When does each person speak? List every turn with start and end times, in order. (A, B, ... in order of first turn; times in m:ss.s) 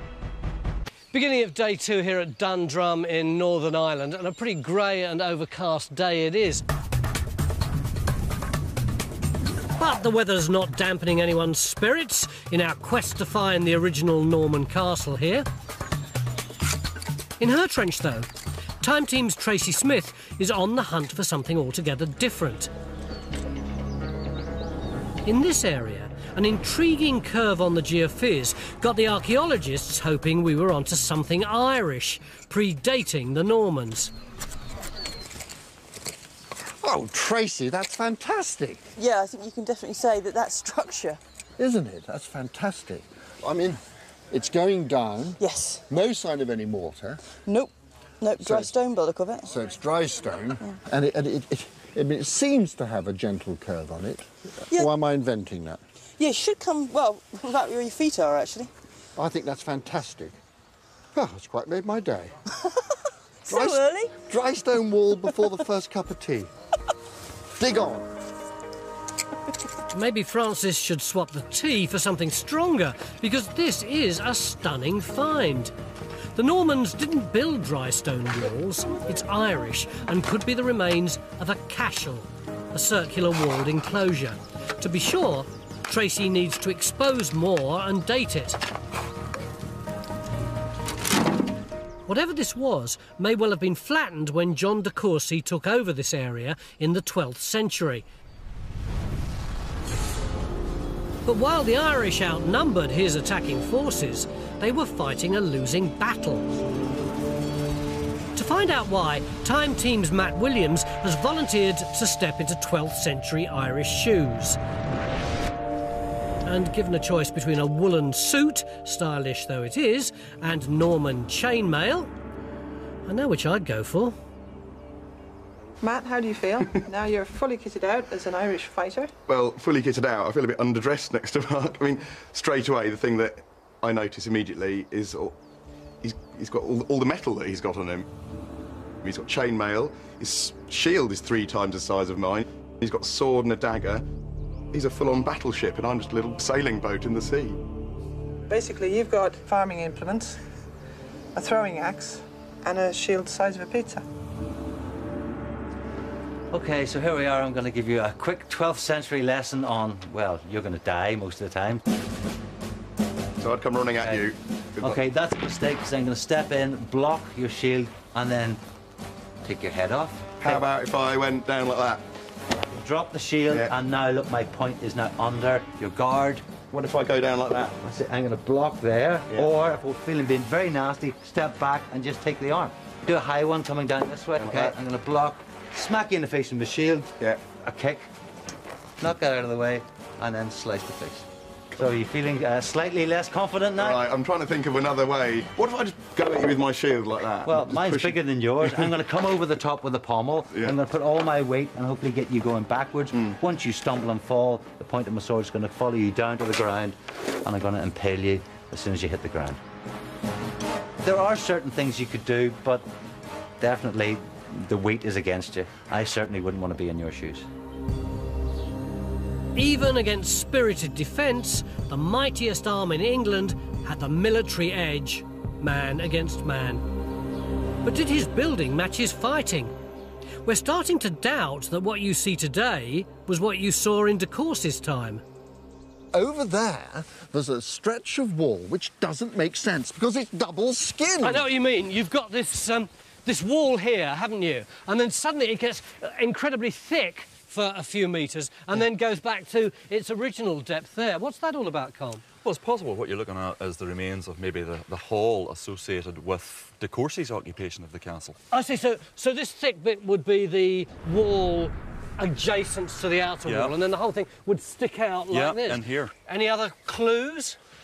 0:01.1-0:06.6 A
0:09.8-0:15.4 A
0:17.4-0:18.3 A
0:18.8-0:22.7 A
0:25.2-0:34.1 A
0:36.6-0:38.8 B
0:39.0-0:41.2 C
0:41.6-0:43.8 B
0:44.3-0:45.4 B
0:45.4-0:45.8 C
0:45.9-0:47.2 B
0:47.5-0:49.5 C
0:48.4-0:48.7 B
0:49.4-0:55.8 B
0:56.2-0:58.7 C
0:59.2-1:00.4 B
1:01.1-1:02.4 B
1:03.5-1:04.1 C
1:03.5-1:06.5 B
1:07.6-1:08.1 B
1:09.9-1:15.7 A
1:16.4-1:28.6 A
1:32.1-1:38.0 A
1:41.2-1:46.5 A
1:48.4-1:54.6 A
1:56.4-2:02.1 A
2:03.1-2:04.1 A
2:05.8-2:09.1 D
2:09.3-2:15.4 E
2:16.0-2:18.1 E
2:19.0-2:24.0 E
2:24.7-2:27.6 E
2:28.5-2:30.4 D
2:31.3-2:34.0 D
2:36.5-2:41.8 F
2:43.4-2:45.0 E
2:44.8-2:48.6 F
2:49.4-2:50.6 F
2:50.4-2:52.0 E
2:52.8-2:56.7 F
2:56.7-2:57.6 E
2:57.5-3:08.1 F
3:04.4-3:04.8 E
3:09.0-3:14.0 F
3:13.8-3:18.9 E
3:17.4-3:29.6 F
3:20.5-3:20.8 E
3:31.0-3:32.9 F
3:33.6-3:37.4 F
3:39.6-3:46.8 A
3:47.8-3:49.7 A
3:50.4-3:55.2 A
3:56.1-4:01.5 B
4:01.2-4:12.2 A
4:12.4-4:18.4 G
4:18.5-4:27.6 A
4:23.4-4:23.7 G
4:25.3-4:26.1 G